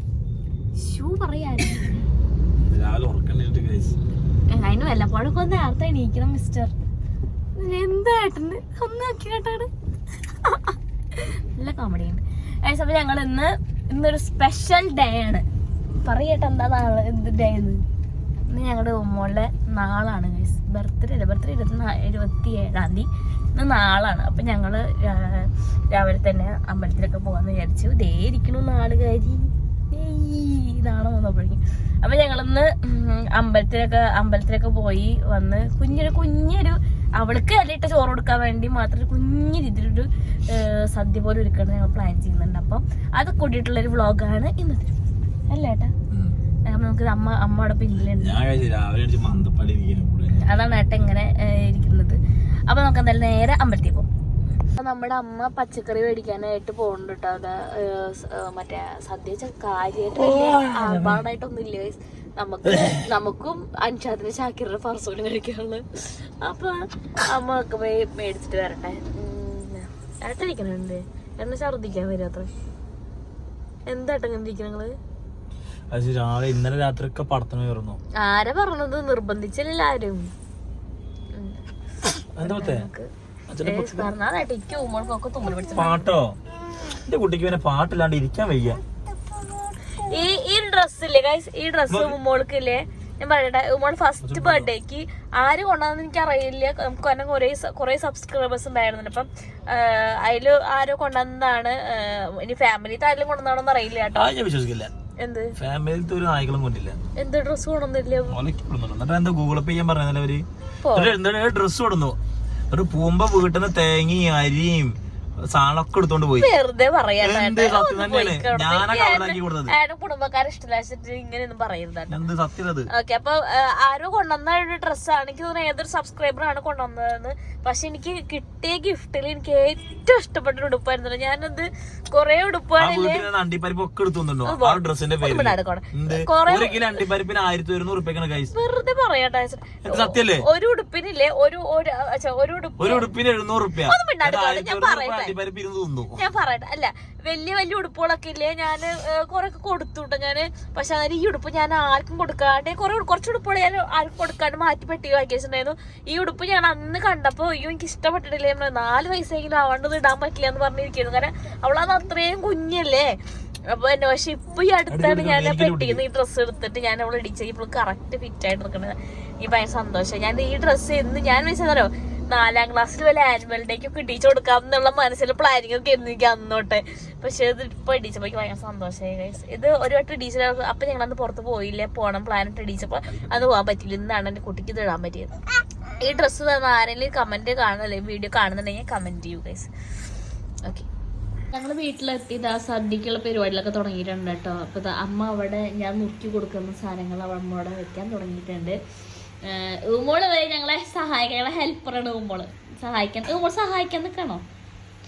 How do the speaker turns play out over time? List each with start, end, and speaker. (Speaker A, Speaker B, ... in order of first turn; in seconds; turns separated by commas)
Speaker A: 0.8-2.0, Speaker B: 2.6-4.0, Speaker A: 4.5-6.7, Speaker A: 7.6-9.7, Speaker A: 10.4-15.4, Speaker A: 16.0-17.8, Speaker A: 18.5-44.9, Speaker A: 45.5-45.9, Speaker B: 46.1-46.4, Speaker A: 46.7-48.4, Speaker B: 48.0-50.5, Speaker A: 50.3-54.1, Speaker A: 54.8-72.5, Speaker B: 60.2-61.2, Speaker B: 62.6-63.1, Speaker A: 73.9-74.9, Speaker B: 75.9-78.0, Speaker A: 78.2-80.2, Speaker A: 81.3-83.1, Speaker B: 82.4-82.9, Speaker B: 83.5-84.1, Speaker A: 83.6-86.0, Speaker B: 85.7-86.4, Speaker B: 87.0-88.8, Speaker A: 89.9-104.3, Speaker B: 91.9-92.2, Speaker B: 94.2-94.7, Speaker B: 104.1-104.9, Speaker A: 105.2-105.5, Speaker B: 105.6-107.0, Speaker A: 107.2-108.4, Speaker B: 108.3-112.2, Speaker A: 110.8-111.2, Speaker B: 112.7-116.5, Speaker A: 116.4-122.2, Speaker B: 117.2-119.7, Speaker B: 122.1-122.9, Speaker A: 122.9-133.2, Speaker B: 132.8-138.5, Speaker A: 134.4-136.9, Speaker A: 138.5-143.1, Speaker B: 139.8-140.5, Speaker B: 142.8-146.2, Speaker A: 143.8-145.3, Speaker A: 146.2-163.2, Speaker A: 163.7-185.3, Speaker B: 164.9-166.0, Speaker B: 183.1-183.5, Speaker A: 186.0-189.7, Speaker A: 191.5-198.8, Speaker A: 199.4-204.4